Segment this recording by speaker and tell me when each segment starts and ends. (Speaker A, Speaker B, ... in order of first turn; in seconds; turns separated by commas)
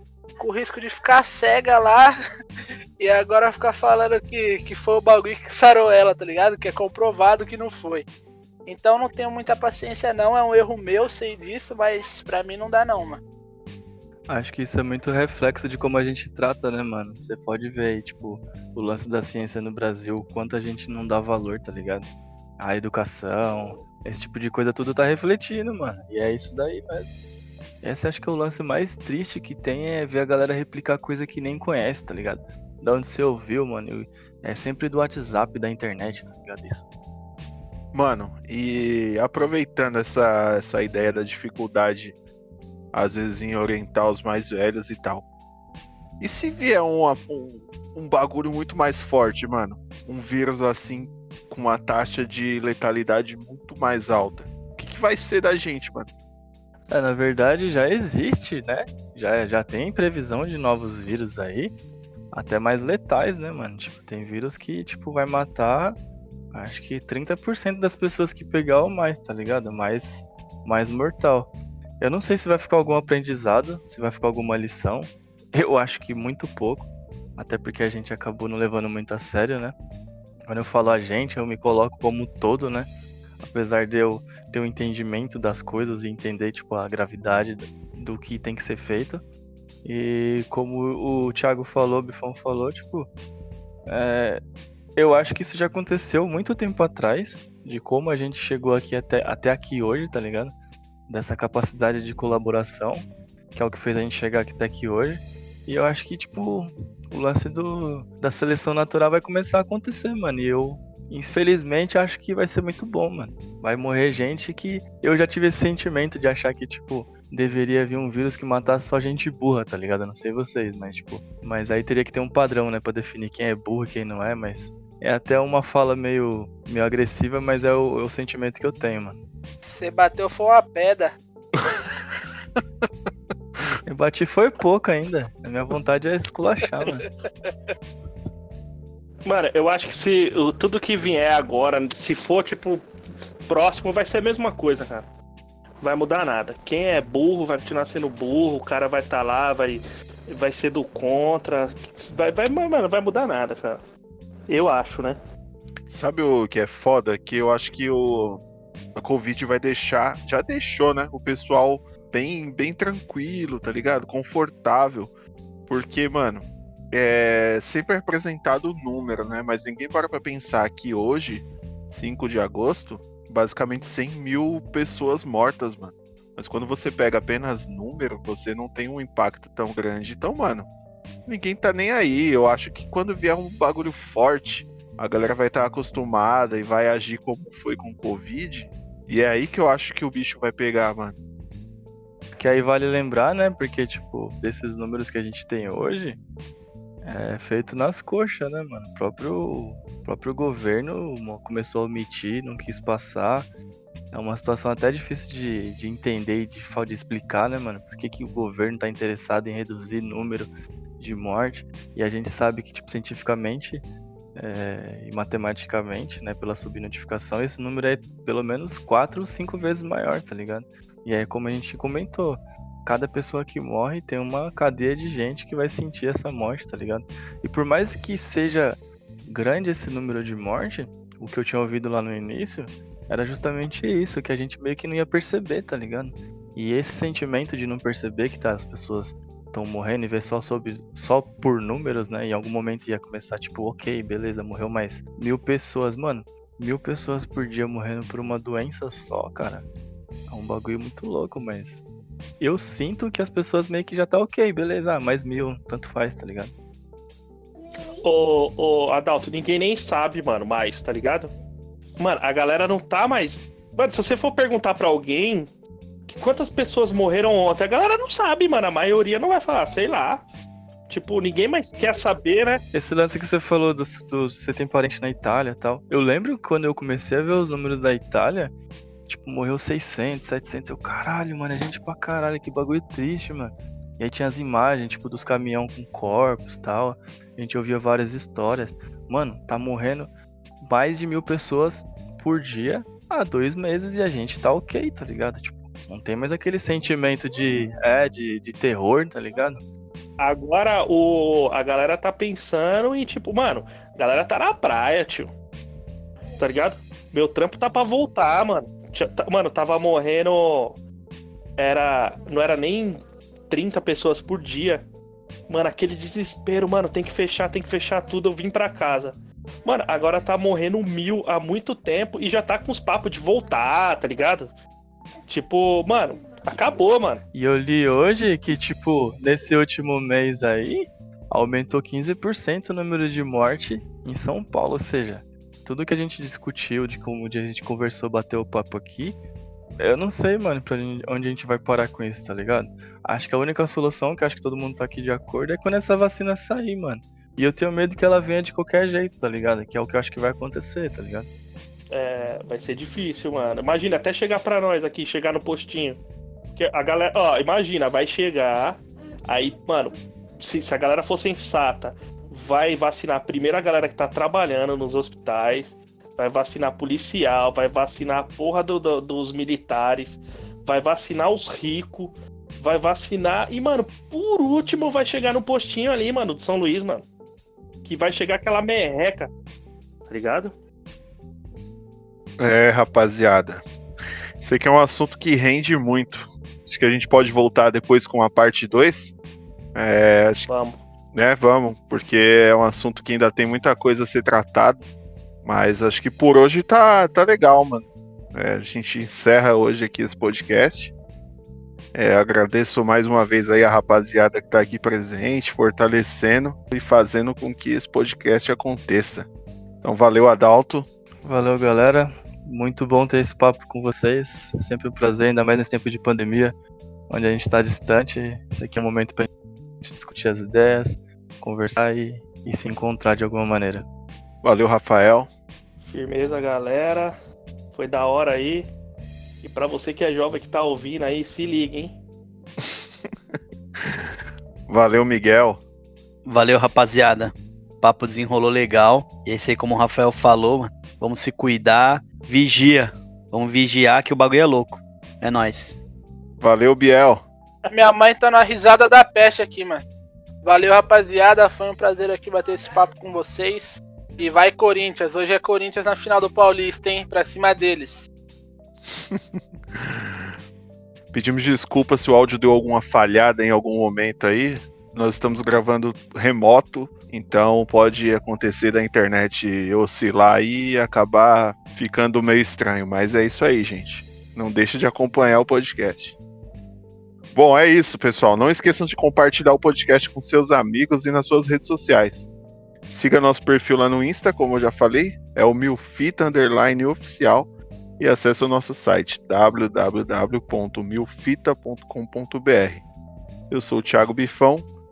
Speaker A: 0.4-2.1, Speaker A: 3.0-8.0, Speaker A: 8.7-13.2, Speaker B: 14.3-22.1, Speaker B: 22.6-27.1, Speaker B: 27.8-36.8, Speaker C: 37.9-42.1, Speaker C: 42.9-45.2, Speaker C: 46.2-56.1, Speaker B: 56.9-61.7, Speaker B: 62.3-66.0, Speaker B: 66.5-79.7, Speaker B: 80.5-82.9, Speaker B: 83.4-89.2, Speaker B: 89.8-93.1, Speaker B: 93.9-94.4, Speaker B: 95.0-100.5, Speaker B: 101.1-103.0, Speaker B: 103.5-129.2, Speaker A: 129.7-131.1, Speaker C: 131.6-131.9, Speaker B: 133.8-137.1, Speaker D: 139.2-142.8, Speaker D: 143.4-145.0, Speaker D: 145.8-153.8, Speaker D: 154.5-155.2, Speaker C: 155.9-158.4, Speaker C: 158.9-165.1, Speaker C: 165.7-180.7, Speaker C: 181.2-191.2, Speaker B: 192.4-196.2, Speaker B: 197.0-203.5, Speaker B: 204.1-213.8, Speaker B: 214.3-249.7, Speaker B: 250.3-251.8, Speaker B: 252.4-256.5, Speaker D: 258.0-261.3, Speaker D: 262.0-265.5, Speaker D: 266.1-270.2, Speaker D: 270.9-272.6, Speaker B: 272.7-278.5, Speaker B: 279.1-290.1, Speaker B: 290.6-299.6, Speaker D: 300.2-305.3, Speaker D: 306.4-310.8, Speaker D: 311.6-313.0, Speaker D: 313.5-314.8, Speaker D: 315.5-324.5, Speaker D: 325.3-327.2, Speaker B: 327.3-339.1, Speaker B: 339.8-351.3, Speaker D: 351.9-356.0, Speaker D: 356.6-377.0, Speaker D: 377.8-379.3, Speaker D: 380.1-380.5, Speaker C: 382.4-383.6, Speaker C: 384.4-389.1, Speaker C: 389.7-390.5, Speaker D: 390.5-390.8, Speaker C: 391.1-394.8, Speaker C: 395.4-400.9, Speaker C: 401.9-409.3, Speaker C: 409.8-410.9, Speaker B: 411.2-416.5, Speaker B: 417.1-419.3, Speaker B: 419.8-423.9, Speaker C: 424.4-425.3, Speaker D: 425.8-427.1, Speaker D: 427.7-428.7, Speaker D: 429.4-432.0, Speaker C: 432.6-434.1, Speaker C: 434.7-435.6, Speaker E: 436.2-445.8, Speaker C: 446.4-447.2, Speaker A: 447.7-449.8, Speaker A: 450.4-458.1, Speaker C: 458.9-460.3, Speaker C: 461.1-476.1, Speaker C: 477.3-482.3, Speaker C: 482.9-492.8, Speaker C: 493.5-494.7